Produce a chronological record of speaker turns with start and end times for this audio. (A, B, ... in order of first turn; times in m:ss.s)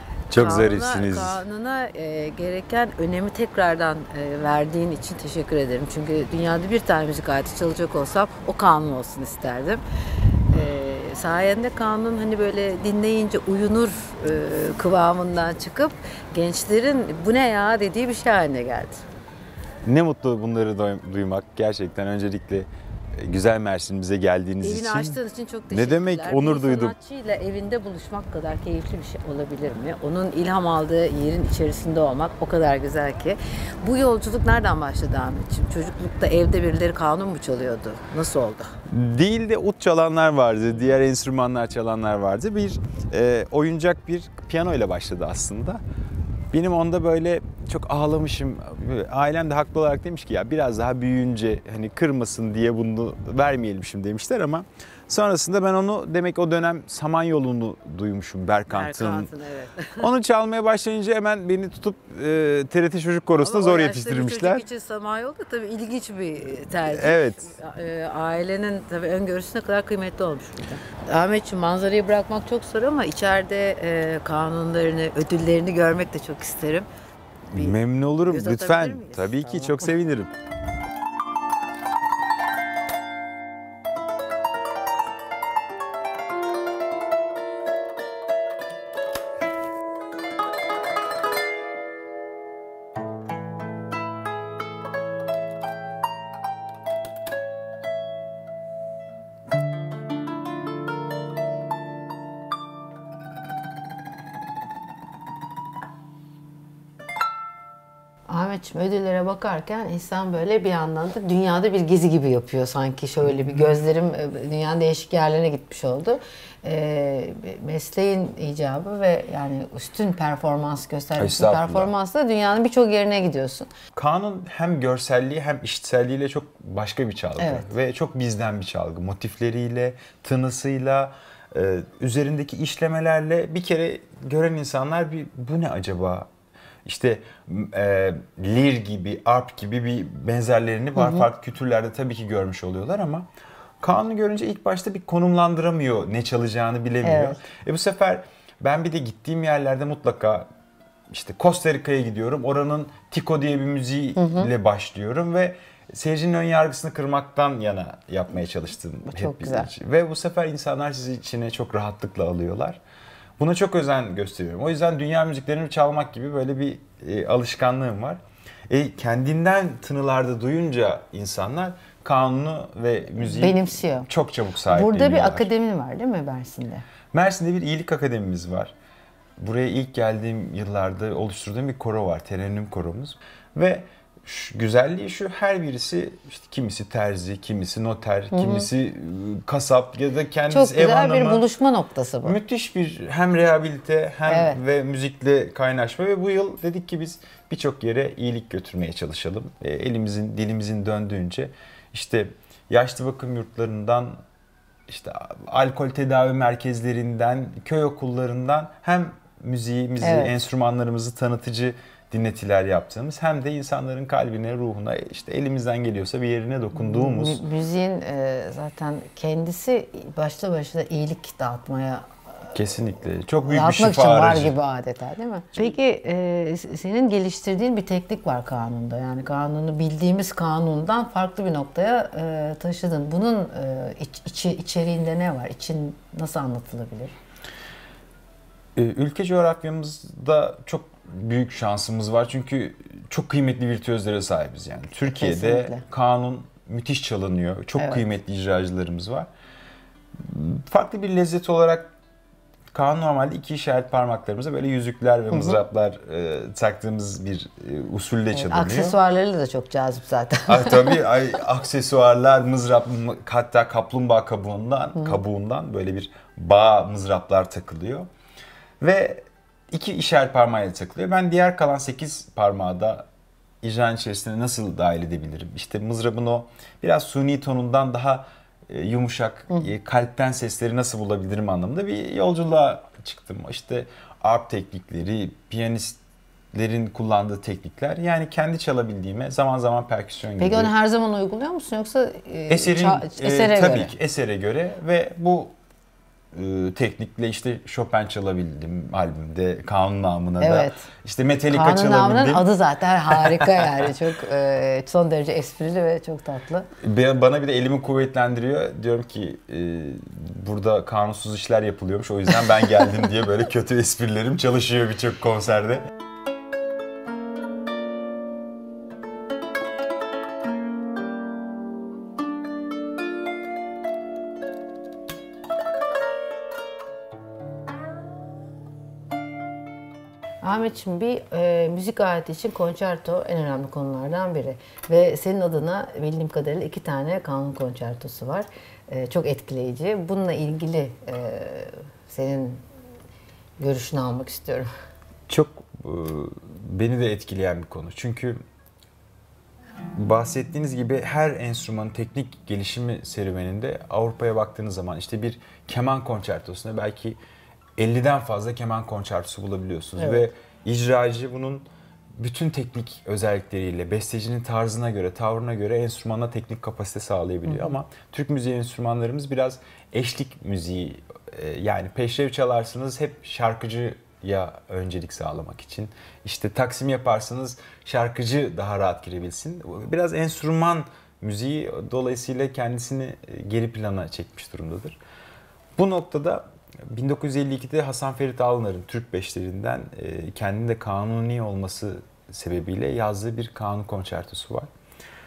0:00.3-0:01.4 A
0:00.3-0:09.8 B
0:10.5-0:19.0 B
0:19.8-0:26.9 A
0:24.6-0:38.7 B
0:38.9-0:45.8 A
0:46.5-0:59.3 A
0:58.7-1:00.1 B
1:00.0-1:04.6 A
1:03.4-1:16.9 B
1:06.8-1:07.5 A
1:17.5-1:19.9 B
1:17.5-1:20.3 A
1:48.3-2:03.7 B
2:01.2-2:01.9 A
2:03.9-2:16.3 A
2:07.4-2:07.7 B
2:16.8-2:23.3 A
2:21.0-2:21.3 B
2:23.8-2:30.5 A
2:27.0-2:27.4 B
2:31.1-2:42.8 A
2:34.2-2:34.5 B
2:39.0-2:39.7 B
2:43.4-2:55.5 A
2:53.2-2:54.1 B
2:54.7-2:56.8 B
2:57.1-2:58.7 A
2:59.4-3:11.4 A
3:08.3-3:08.7 B
3:10.5-3:12.4 B
3:12.2-3:24.2 A
3:14.3-3:14.6 B
3:24.9-3:37.4 A
3:30.0-3:30.3 B
3:36.7-3:42.1 B
3:42.5-3:44.5 A
3:43.4-3:57.1 B
3:58.8-4:09.3 A
4:05.0-4:05.8 B
4:10.2-4:11.9 A
4:12.7-4:19.0 A
4:15.3-4:15.6 B
4:18.3-4:21.0 B
4:20.5-4:28.1 A
4:28.8-4:33.0 A
4:33.6-4:46.0 A
4:46.5-4:50.7 A
4:50.4-4:53.9 B
4:52.5-4:55.5 A
4:56.3-5:02.4 A
5:00.4-5:00.9 B
5:01.5-5:06.7 B
5:03.2-5:03.6 A
5:06.8-5:15.9 A
5:30.4-5:42.6 B
5:43.6-5:44.7 B
5:45.3-5:48.4 A
5:49.9-5:57.2 A
5:57.8-6:01.7 A
6:00.0-6:00.3 B
6:02.2-6:25.0 A
6:07.4-6:07.8 B
6:25.8-6:34.7 A